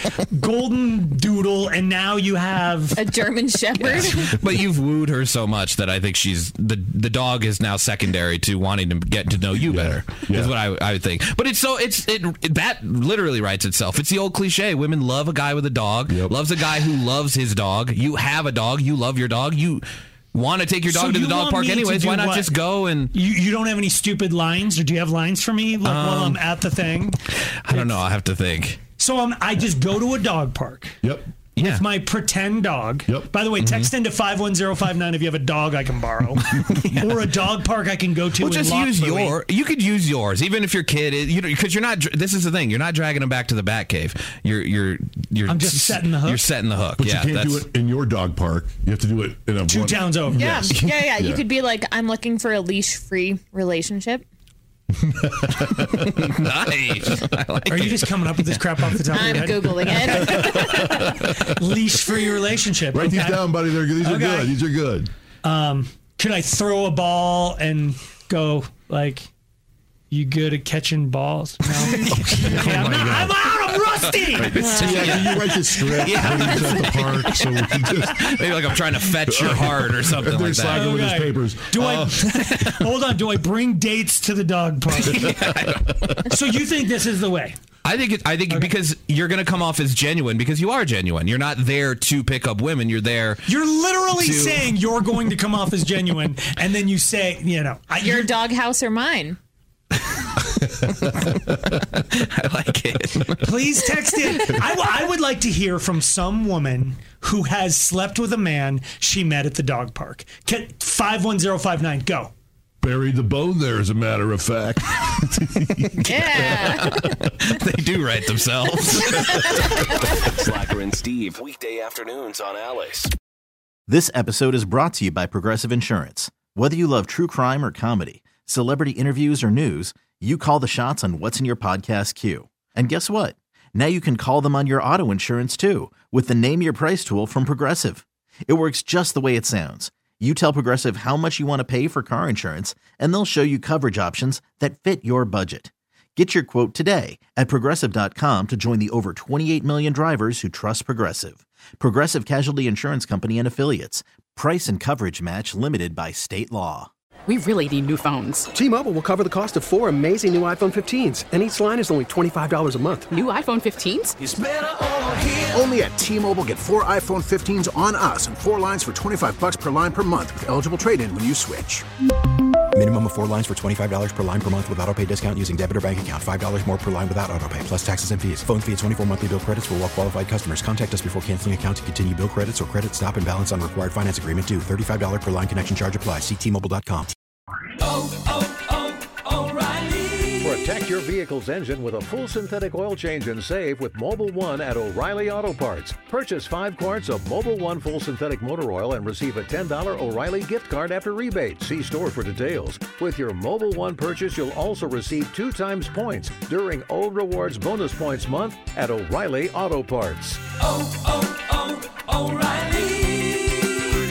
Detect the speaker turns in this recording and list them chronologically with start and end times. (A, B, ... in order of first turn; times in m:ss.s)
0:00.4-0:02.9 A
0:02.9-0:04.4 B
0:03.8-0:23.1 C
0:09.7-0:10.5 D
0:16.1-0:16.4 D
0:20.9-0:22.4 A
0:23.3-0:26.5 A
0:25.8-0:26.6 C
0:27.3-0:28.8 C
0:29.0-0:30.9 A
0:31.0-0:31.3 D
0:31.6-0:31.9 C
0:31.6-0:36.4 A
0:33.1-0:33.4 D
0:33.6-0:33.9 C
0:36.5-0:37.3 C
0:37.0-0:39.3 A
0:38.4-0:47.7 C
0:45.6-0:46.4 A
0:47.0-0:51.4 D
0:49.7-0:50.3 A
0:50.3-0:54.2 B
0:55.1-0:56.0 D
0:55.7-0:58.8 C
0:57.7-1:00.3 A
0:59.1-1:01.3 B
1:00.3-1:01.6 D
1:01.8-1:03.5 A
1:02.9-1:05.1 D
1:04.0-1:04.6 A
1:05.5-1:09.2 A
1:10.1-1:14.5 A
1:11.8-1:21.1 C
1:12.0-1:13.3 D
1:14.4-1:18.5 D
1:14.6-1:15.6 B
1:16.4-1:17.5 B
1:19.0-1:22.3 D
1:20.8-1:25.2 A
1:21.8-1:23.0 C
1:24.9-1:26.6 C
1:26.3-1:27.6 A
1:27.8-1:34.8 C
1:33.9-1:38.3 A
1:37.9-1:39.4 B
1:40.4-1:44.2 C
1:43.5-1:52.3 A
1:52.8-1:57.1 D
1:56.0-2:00.0 C
1:56.1-1:56.9 B
1:59.8-2:00.2 B
2:00.4-2:03.1 E
2:03.9-2:36.9 F
2:37.3-2:38.5 G
2:38.5-2:43.2 H
2:43.2-2:44.1 G
2:44.3-2:45.6 H
2:45.6-2:51.8 I
2:52.7-3:07.1 J
3:10.4-3:30.4 K